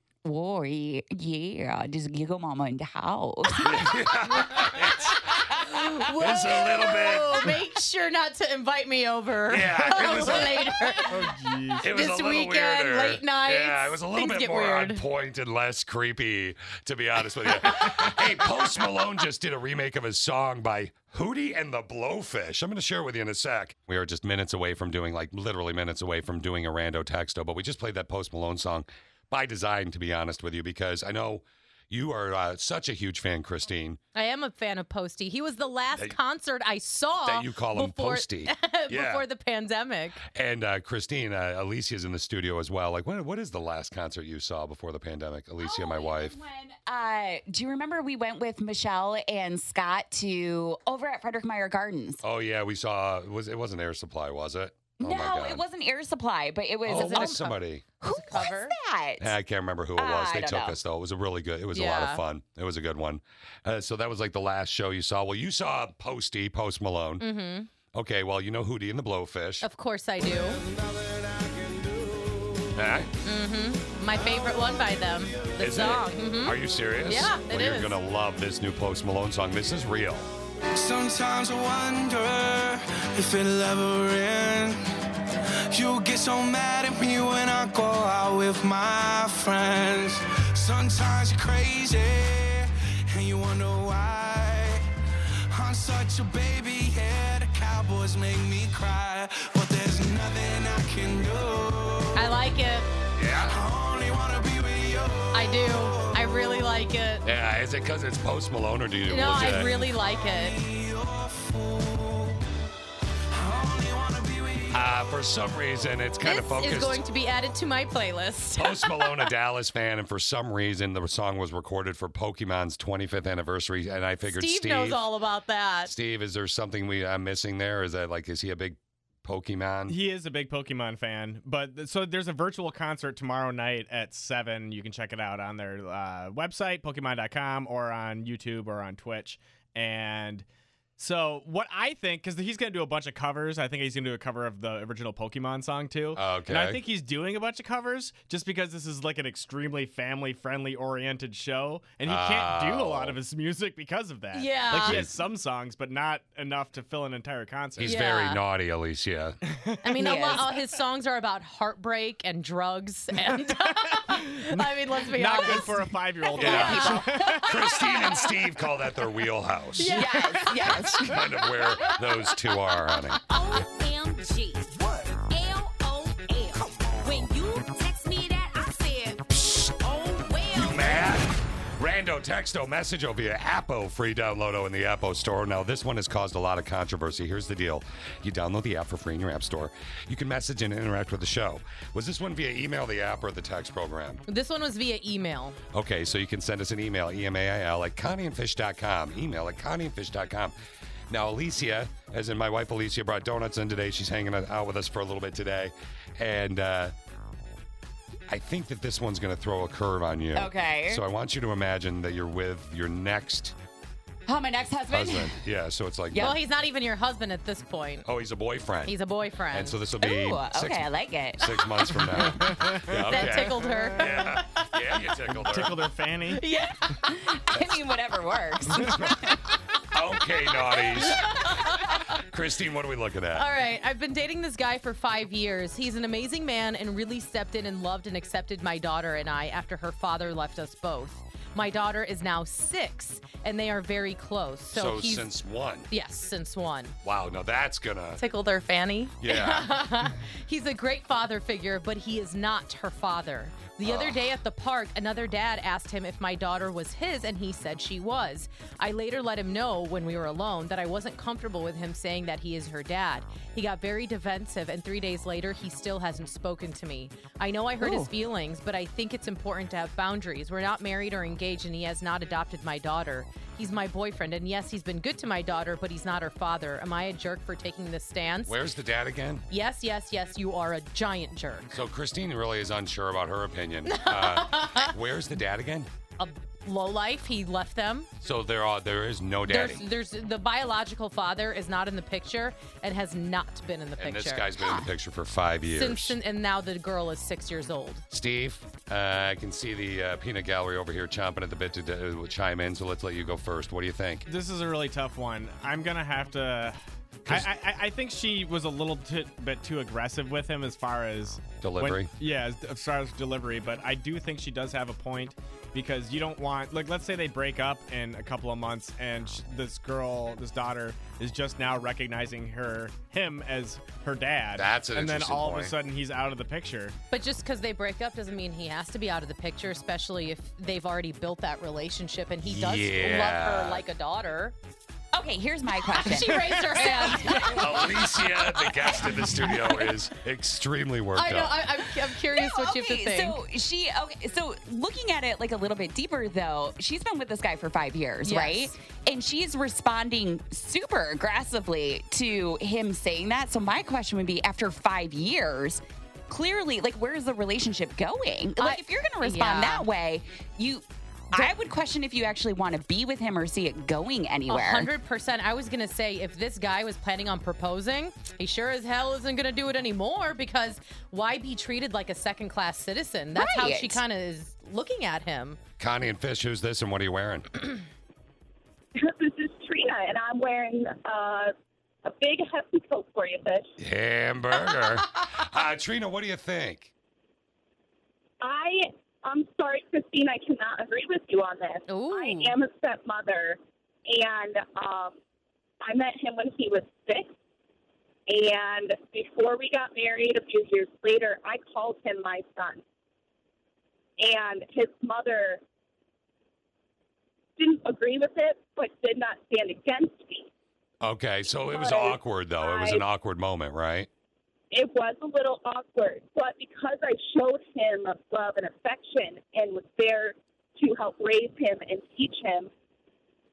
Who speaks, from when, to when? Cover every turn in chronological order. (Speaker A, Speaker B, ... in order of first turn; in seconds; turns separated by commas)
Speaker A: 0.2-3.9, Speaker B: 3.6-5.2, Speaker A: 5.3-5.9, Speaker C: 5.7-11.1, Speaker B: 6.1-7.5, Speaker B: 9.5-10.7, Speaker D: 11.1-11.9, Speaker B: 11.8-34.0, Speaker C: 11.9-15.0, Speaker C: 34.1-40.2, Speaker B: 37.2-39.2, Speaker B: 40.3-46.4, Speaker A: 45.6-52.2, Speaker B: 52.2-55.6, Speaker A: 55.0-57.5, Speaker B: 56.9-57.9, Speaker C: 56.9-57.6, Speaker A: 58.0-59.3, Speaker C: 58.1-58.8, Speaker B: 59.2-67.2, Speaker A: 60.0-60.8, Speaker C: 61.7-62.2, Speaker C: 67.2-67.7, Speaker B: 67.9-69.7, Speaker C: 69.6-70.6, Speaker B: 72.8-73.1, Speaker C: 73.2-78.0, Speaker B: 75.6-80.3, Speaker E: 80.9-82.3, Speaker E: 83.3-84.3, Speaker E: 85.8-90.1, Speaker E: 90.7-92.4, Speaker E: 93.2-94.5, Speaker E: 95.6-101.7, Speaker C: 102.1-102.9, Speaker B: 103.2-103.6, Speaker C: 105.3-107.2, Speaker B: 107.2-109.8, Speaker C: 109.1-110.6, Speaker E: 111.0-112.0, Speaker E: 113.5-114.5, Speaker B: 114.7-117.0, Speaker C: 116.2-119.2, Speaker B: 118.5-125.0, Speaker C: 124.3-125.9, Speaker B: 125.9-130.0, Speaker D: 129.9-140.4, Speaker D: 141.0-158.0, Speaker B: 146.2-146.8, Speaker B: 152.1-153.2, Speaker C: 154.3-155.0, Speaker B: 154.8-155.1, Speaker B: 157.8-159.4, Speaker C: 157.8-158.4, Speaker C: 159.8-165.8, Speaker A: 160.0-160.5, Speaker D: 164.1-167.6, Speaker C: 166.3-167.0, Speaker A: 166.4-168.1, Speaker B: 166.4-170.0, Speaker C: 169.8-170.1, Speaker A: 169.9-171.2, Speaker D: 170.1-170.9, Speaker B: 170.9-173.2, Speaker F: 173.3-181.1, Speaker B: 180.5-194.2, Speaker C: 194.3-195.6, Speaker B: 195.7-200.6, Speaker B: 201.1-206.9, Speaker B: 208.3-213.6, Speaker A: 210.4-211.0, Speaker A: 214.3-215.4, Speaker B: 214.9-216.3, Speaker A: 216.1-216.4, Speaker C: 216.2-218.1, Speaker B: 218.1-219.0, Speaker C: 218.9-219.8, Speaker B: 219.5-225.8, Speaker A: 220.0-221.5, Speaker D: 222.1-222.8, Speaker C: 223.1-224.3, Speaker D: 225.3-226.4, Speaker A: 227.1-229.4, Speaker B: 229.9-231.2, Speaker C: 231.0-231.8, Speaker B: 232.3-233.5, Speaker C: 233.4-245.3, Speaker B: 244.7-245.9, Speaker C: 245.9-247.0, Speaker B: 247.0-248.2, Speaker C: 248.2-278.6, Speaker B: 249.2-249.7, Speaker B: 253.8-254.3, Speaker A: 267.8-268.1, Speaker B: 278.5-279.4, Speaker C: 279.5-281.8, Speaker B: 281.7-285.9, Speaker C: 283.9-284.9, Speaker C: 286.2-288.1, Speaker B: 288.2-289.8, Speaker C: 289.5-294.5, Speaker B: 294.0-296.2, Speaker C: 295.7-298.1, Speaker B: 298.1-304.3, Speaker D: 304.3-327.0, Speaker B: 311.6-312.1, Speaker B: 324.6-325.7, Speaker C: 327.1-334.6, Speaker B: 332.4-333.8, Speaker A: 335.1-337.4, Speaker C: 335.9-337.6, Speaker B: 337.5-341.6, Speaker C: 341.2-343.4, Speaker A: 342.3-364.9, Speaker C: 348.2-348.7, Speaker C: 358.6-359.9, Speaker C: 364.5-375.6, Speaker A: 373.4-374.0, Speaker B: 375.8-377.5, Speaker G: 379.0-381.5, Speaker G: 382.1-383.7, Speaker B: 383.8-386.9, Speaker G: 388.4-395.2, Speaker C: 391.9-392.5, Speaker G: 395.8-397.3, Speaker G: 398.3-402.8, Speaker G: 404.2-405.6, Speaker G: 407.6-410.5, Speaker B: 411.0-414.1, Speaker G: 411.7-413.0, Speaker G: 414.7-422.7